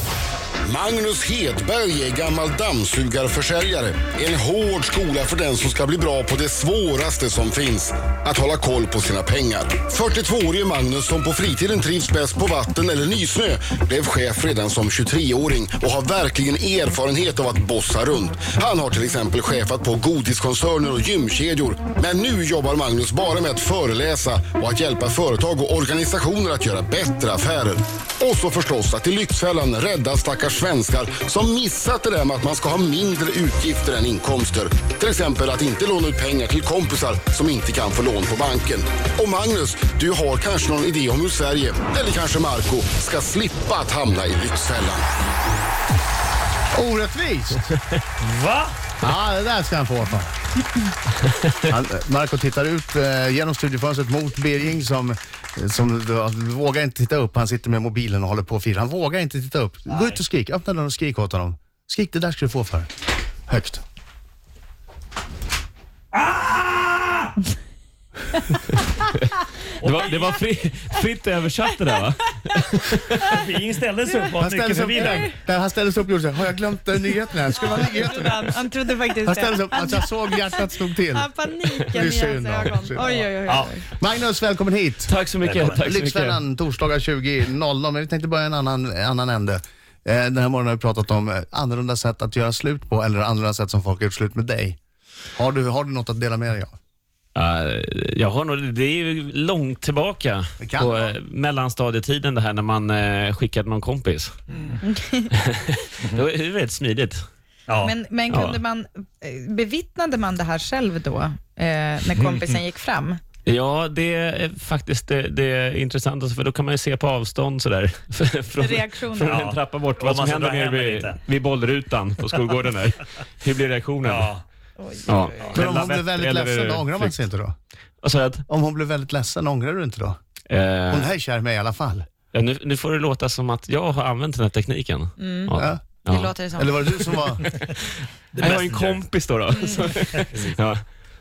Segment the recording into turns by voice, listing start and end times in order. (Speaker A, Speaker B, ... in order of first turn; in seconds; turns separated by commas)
Speaker A: 0.7-45.1, Speaker B: 46.7-47.8, Speaker C: 48.2-48.8, Speaker B: 49.0-50.3, Speaker B: 51.6-62.9, Speaker C: 59.9-60.2, Speaker B: 63.5-63.8, Speaker C: 66.1-67.3, Speaker C: 69.8-70.4, Speaker D: 69.8-73.4, Speaker C: 73.2-75.2, Speaker B: 74.4-78.6, Speaker E: 78.2-79.9, Speaker B: 79.2-81.3, Speaker E: 81.1-83.6, Speaker B: 81.9-94.8, Speaker C: 83.5-83.8, Speaker D: 85.1-86.4, Speaker C: 85.4-85.8, Speaker B: 95.3-96.7, Speaker D: 97.3-104.3, Speaker B: 100.6-101.1, Speaker D: 105.3-107.2, Speaker C: 107.7-107.9, Speaker E: 107.9-113.2, Speaker D: 108.3-108.6, Speaker C: 112.3-112.6, Speaker D: 113.5-124.3, Speaker E: 118.6-119.2, Speaker C: 119.2-121.2, Speaker C: 124.0-124.4, Speaker D: 125.0-127.2, Speaker B: 125.5-127.5, Speaker D: 128.0-128.4, Speaker B: 128.5-130.2, Speaker D: 130.5-131.1, Speaker B: 130.9-132.1, Speaker D: 132.3-136.3, Speaker E: 136.1-136.6, Speaker B: 136.6-137.5, Speaker D: 136.9-140.8, Speaker C: 138.3-139.0, Speaker C: 140.1-140.6